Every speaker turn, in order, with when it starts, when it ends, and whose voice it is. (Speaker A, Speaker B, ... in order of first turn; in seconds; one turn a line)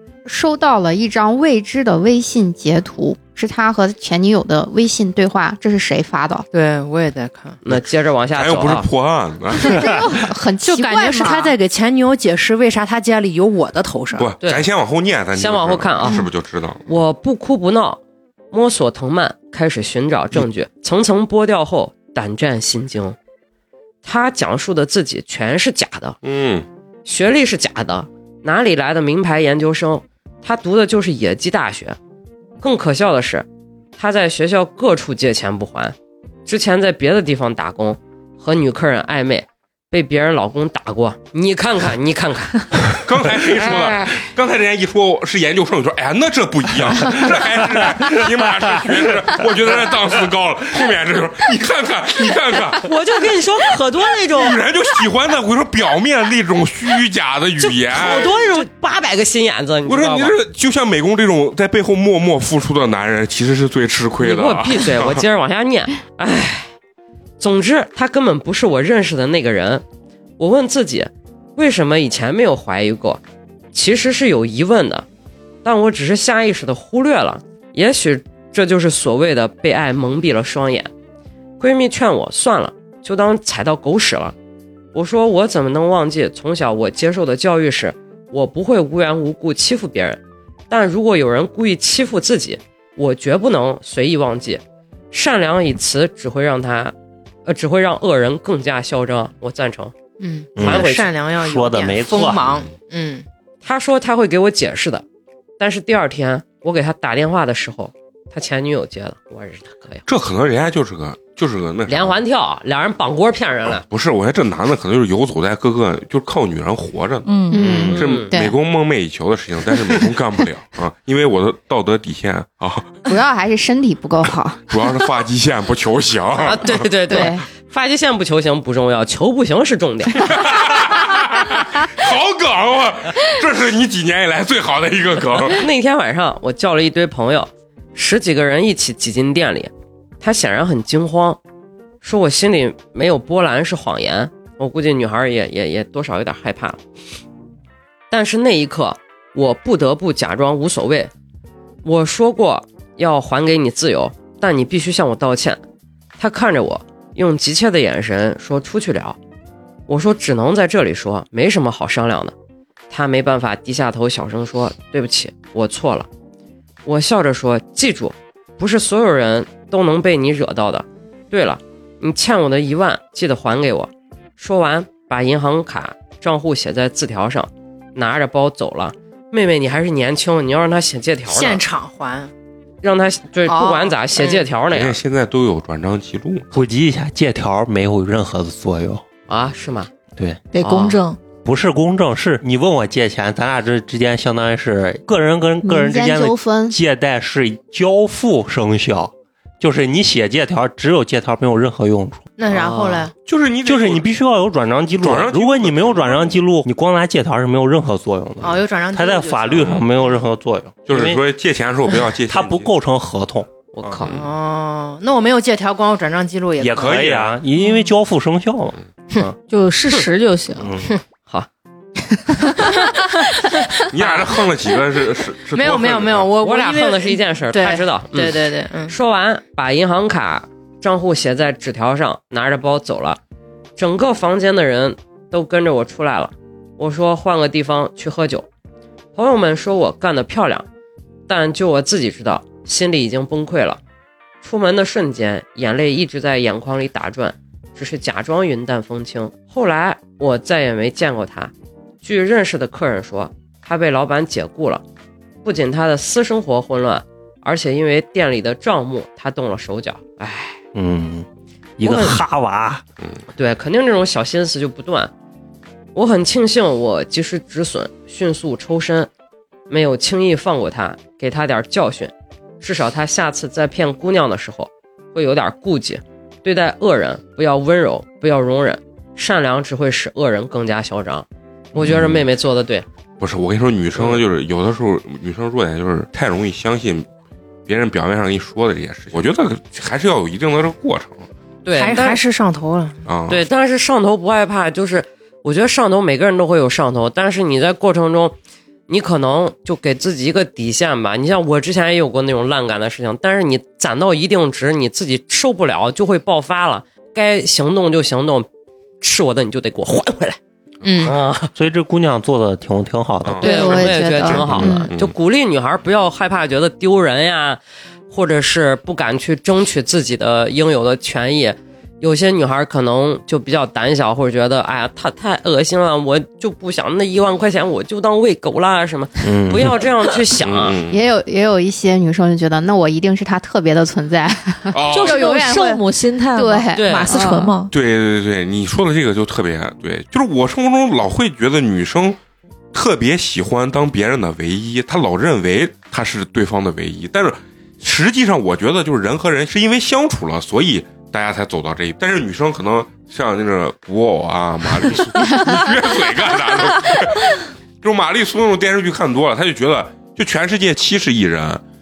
Speaker A: 0.3-6.5
Speaker B: 6.5-7.6
Speaker C: 7.6-8.9
Speaker D: 8.3-10.1
Speaker A: 9.6-11.6
Speaker B: 10.7-14.3
Speaker D: 14.2-16.8
Speaker C: 15.4-16.3
Speaker C: 16.9-18.0
Speaker C: 18.5-23.2
Speaker C: 24.0-26.2
Speaker D: 26.2-26.7
Speaker C: 27.1-32.0
Speaker C: 32.6-36.0
Speaker C: 36.5-42.9
Speaker D: 43.0-52.9
Speaker C: 43.6-44.2
Speaker C: 52.8-54.6
Speaker D: 54.3-58.3
Speaker C: 57.6-60.4
Speaker D: 59.9-65.2
Speaker C: 64.2-66.7
Speaker C: 67.4-69.8
Speaker C: 70.4-73.2
Speaker C: 73.7-75.1
Speaker C: 75.6-80.9
Speaker C: 81.6-84.3
Speaker C: 84.9-97.0
Speaker C: 97.5-99.9
Speaker B: 100.2-103.2
Speaker E: 100.6-102.4
Speaker C: 100.6-101.1
Speaker C: 103.6-105.0
Speaker C: 105.6-110.0
Speaker D: 110.1-112.2
Speaker C: 111.9-113.8
Speaker D: 113.7-123.0
Speaker F: 117.2-117.7
Speaker A: 117.5-118.5
Speaker E: 117.7-117.9
Speaker C: 117.9-118.3
Speaker A: 123.1-124.6
Speaker D: 124.7-126.8
Speaker C: 126.4-130.4
Speaker A: 127.1-127.5
Speaker D: 130.2-135.7
Speaker C: 135.5-141.4
Speaker C: 142.0-146.8
Speaker C: 148.1-151.1
Speaker C: 151.8-155.6
Speaker C: 156.2-159.2
Speaker C: 159.9-162.3
Speaker C: 162.9-166.1
Speaker C: 166.8-181.6
Speaker B: 181.3-182.3
Speaker C: 182.8-185.0
Speaker B: 183.5-184.4
Speaker D: 184.7-186.6
Speaker E: 186.5-189.0
Speaker C: 189.3-189.9
Speaker E: 190.2-190.9
Speaker F: 190.5-191.2
Speaker C: 190.6-191.0
Speaker E: 191.4-202.2
Speaker A: 195.6-196.8
Speaker B: 202.4-203.1
Speaker C: 202.5-203.1
Speaker D: 203.3-204.1
Speaker E: 203.7-211.2
Speaker D: 205.0-206.4
Speaker B: 208.4-209.8
Speaker D: 210.9-212.7
Speaker E: 212.3-213.5
Speaker C: 213.7-214.1
Speaker D: 213.8-214.3
Speaker B: 214.1-217.1
Speaker E: 216.6-219.4
Speaker D: 216.8-217.4
Speaker F: 219.5-220.7
Speaker E: 220.6-220.9
Speaker F: 222.3-222.9
Speaker D: 223.9-226.3
Speaker B: 225.5-228.9
Speaker C: 226.4-233.2
Speaker C: 233.8-238.5
Speaker C: 239.2-240.7
Speaker C: 241.3-243.8
Speaker C: 244.4-254.8
Speaker C: 255.4-260.6
Speaker E: 260.8-261.3
Speaker E: 261.8-262.8
Speaker C: 261.8-262.2
Speaker C: 263.4-265.1
Speaker C: 265.9-269.1
Speaker C: 269.7-282.9
Speaker D: 283.2-287.1
Speaker D: 287.7-291.3
Speaker C: 291.6-292.2
Speaker B: 291.7-293.0
Speaker D: 293.1-293.4
Speaker C: 293.3-298.4
Speaker C: 298.9-308.5
Speaker C: 309.0-310.4
Speaker B: 310.8-311.1
Speaker C: 311.0-311.5
Speaker E: 311.6-313.6
Speaker D: 313.2-313.7
Speaker A: 313.4-314.9
Speaker C: 313.4-317.6
Speaker D: 314.2-315.1
Speaker C: 318.1-330.8
Speaker E: 329.2-329.8
Speaker D: 330.4-331.0
Speaker A: 330.9-337.6
Speaker D: 334.7-335.3
Speaker F: 334.9-337.7
Speaker C: 336.8-337.1
Speaker D: 337.7-342.2
Speaker D: 342.7-361.6